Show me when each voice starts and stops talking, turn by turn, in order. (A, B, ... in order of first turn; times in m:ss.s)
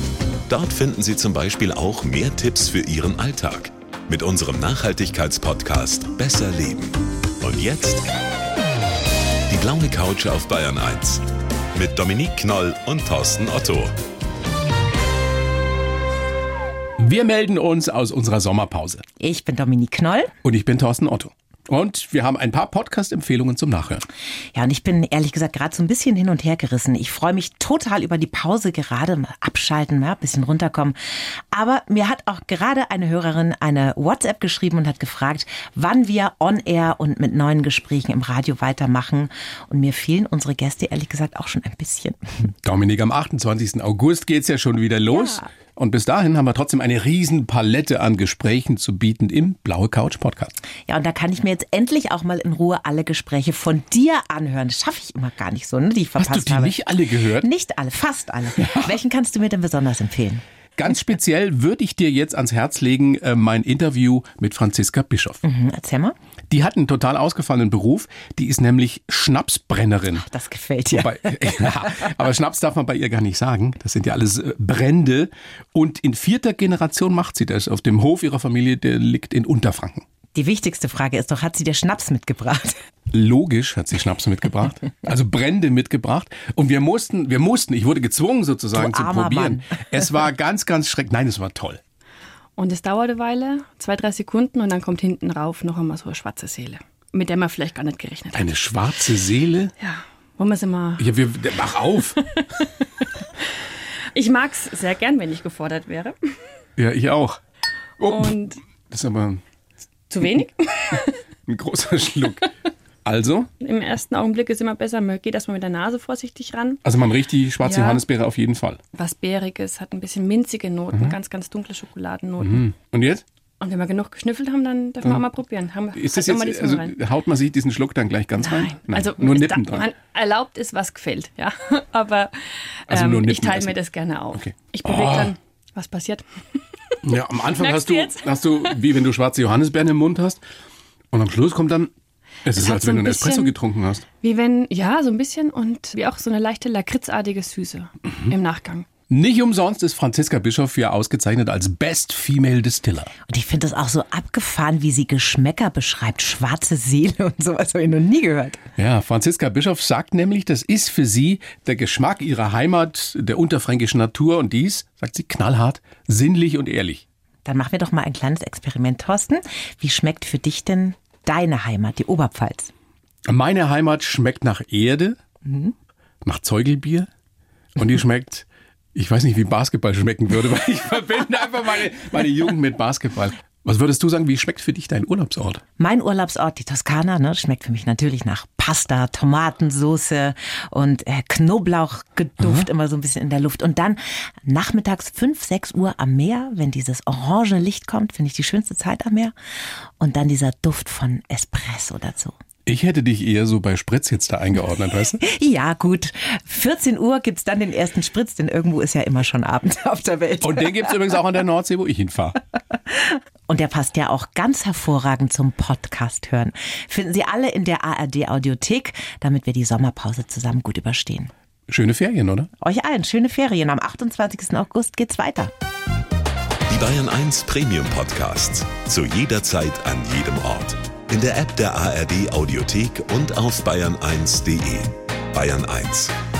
0:00.5-0:08.1 A
0:09.5-0:13.9 A
0:17.0-0:19.0 B
0:19.2-0:20.3 C
0:20.4-0:24.0 B
0:24.5-0:31.0 C
0:31.5-0:42.5 C
0:42.6-0:50.5 B
0:45.1-0:45.4 D
0:50.9-0:56.8 C
0:56.2-0:57.5 B
0:57.4-1:00.4 C
1:00.8-1:05.4 B
1:05.4-1:06.1 C
1:06.5-1:10.3 B
1:10.2-1:11.6 C
1:10.9-1:20.0 B
1:20.3-1:22.8 C
1:23.1-1:31.8 B
1:28.7-1:29.8 C
1:32.6-1:38.5 D
1:38.3-1:39.7 B
1:39.8-1:41.1 D
1:41.0-1:42.2 B
1:42.3-1:42.7 D
1:44.1-1:46.2 D
1:46.8-1:47.4 B
1:48.0-1:48.3 B
1:48.0-1:48.6 D
1:48.9-1:49.4 B
1:50.1-1:51.2 D
1:51.5-1:52.5 B
1:53.0-1:53.5 B
1:53.6-1:56.8 D
1:56.8-1:58.8 B
1:57.6-1:58.0 D
1:58.9-2:02.6 D
2:02.4-2:03.2 B
2:03.6-2:07.0 D
2:05.9-2:09.9 B
2:08.4-2:16.9 D
2:12.9-2:13.8 B
2:14.3-2:15.3 B
2:17.0-2:20.4 B
2:17.5-2:18.8 D
2:21.1-2:21.9 B
2:22.4-2:24.0 B
2:22.5-2:23.5 D
2:24.2-2:28.9 D
2:29.1-2:33.1 B
2:33.3-2:38.6 C
2:38.8-2:47.0 B
2:47.4-2:52.7 C
2:53.3-2:55.2 B
2:55.4-2:55.7 C
2:56.2-2:57.1 B
2:57.8-3:05.6 B
3:05.8-3:19.3 C
3:20.0-3:22.3 C
3:22.6-3:25.2 B
3:25.2-3:31.1 C
3:30.4-3:32.4 B
3:32.9-3:41.3 C
3:41.7-3:42.5 B
3:42.6-3:45.5 C
3:46.7-3:56.1 A